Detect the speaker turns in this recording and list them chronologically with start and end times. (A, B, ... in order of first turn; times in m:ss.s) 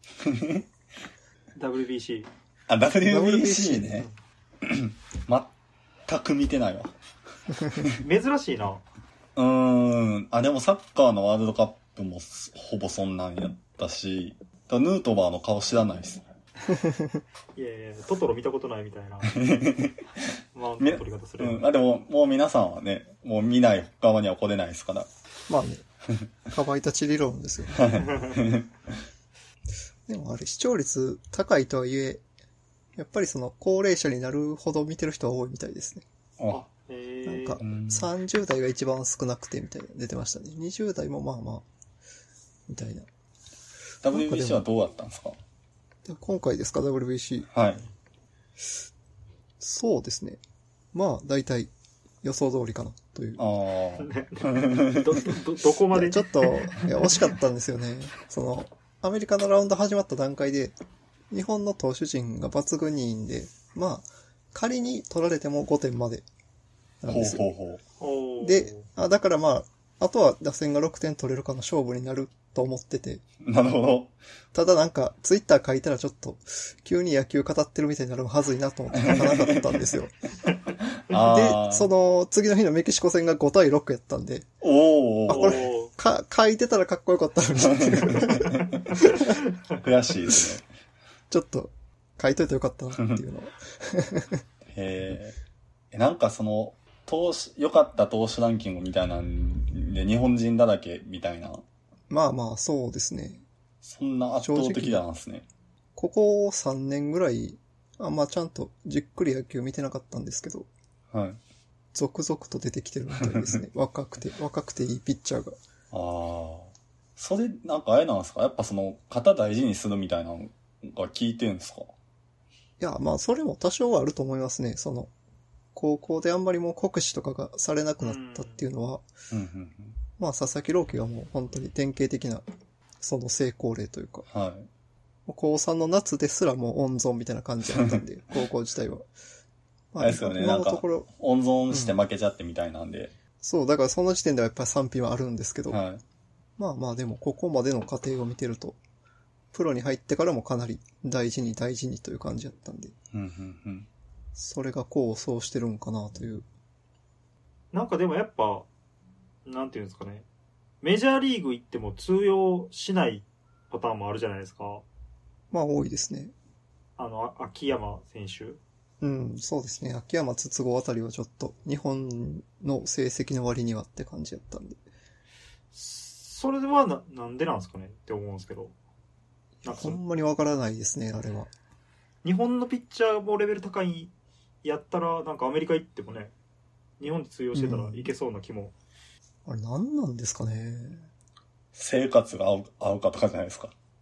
0:00.2-0:00.6 A
0:01.6-0:02.3 B
0:02.7-0:04.1 A
0:03.0-0:04.1 C
0:04.6-0:05.5 A
0:06.1-0:06.9 A
0:08.0-0:08.8 B
0:09.4-0:16.2 A
0:16.7-0:17.2 C
0:17.6-0:19.3 B
0:19.3-0:20.0 A
0:20.5-0:21.7 B
0:20.8-0:25.1 A
0:25.5-0:25.8 C
0:26.5-0:28.0 C
0:27.7-0:28.7 A
0:28.0-0:28.4 B
0:30.1-0:32.2 C
0:33.0-0:36.0 C
0:36.5-0:37.6 B
0:37.3-0:41.6 C
0:37.6-0:38.1 A
0:42.7-0:43.1 C
0:44.0-0:45.4 A
0:44.1-0:44.6 C
0:46.0-0:47.5 C
0:47.5-0:47.9 A
0:49.6-0:50.4 C
0:50.9-0:51.7 C
0:52.2-0:53.4 C
0:53.4-0:55.0 A
0:54.0-0:56.9 B
0:55.9-1:00.8 C
1:01.3-1:06.3 C
1:07.0-1:07.5 C
1:07.1-1:07.8 A
1:08.0-1:08.9 B
1:08.4-1:13.2 C
1:13.4-1:14.2 A
1:14.5-1:20.1 C
1:19.0-1:19.8 A
1:21.0-1:21.9 A
1:21.2-1:24.5 C
1:24.6-1:25.7 A
1:25.3-1:29.3 C
1:25.3-1:25.9 B
1:27.6-1:30.6 A
1:31.3-1:34.4 C
1:34.7-1:35.4 A
1:35.9-1:41.6 A
1:42.1-1:43.4 C
1:43.8-1:45.4 A
1:44.4-1:45.0 C
1:46.0-1:50.7 C
1:51.1-1:51.4 A
1:51.9-1:55.6 C
1:53.2-1:53.6 A
1:55.9-2:01.9 A
2:02.8-2:05.1 C
2:05.8-2:09.0 C
2:08.0-2:08.6 B
2:09.3-2:10.0 A
2:10.2-2:12.5 C
2:13.0-2:14.3 C
2:14.3-2:14.7 A
2:15.3-2:19.1 C
2:17.7-2:18.0 A
2:19.9-2:21.1 C
2:20.0-2:23.1 A
2:21.7-2:22.0 C
2:23.4-2:25.8 C
2:25.7-2:26.0 A
2:26.6-2:28.8 C
2:29.5-2:32.9 C
2:33.1-2:33.9 A
2:34.4-2:36.5 C
2:37.7-2:38.7 B
2:39.4-2:40.3 B
2:40.8-2:44.8 B
2:45.5-2:46.3 C
2:47.0-2:48.6 B
2:49.0-2:54.8 C
2:55.7-2:58.8 B
2:59.6-3:01.5 C
2:59.6-3:00.0 B
3:02.2-3:04.1 B
3:04.6-3:06.3 B
3:07.0-3:08.7 B
3:07.5-3:08.1 C
3:09.4-3:11.1 C
3:11.8-3:13.8 A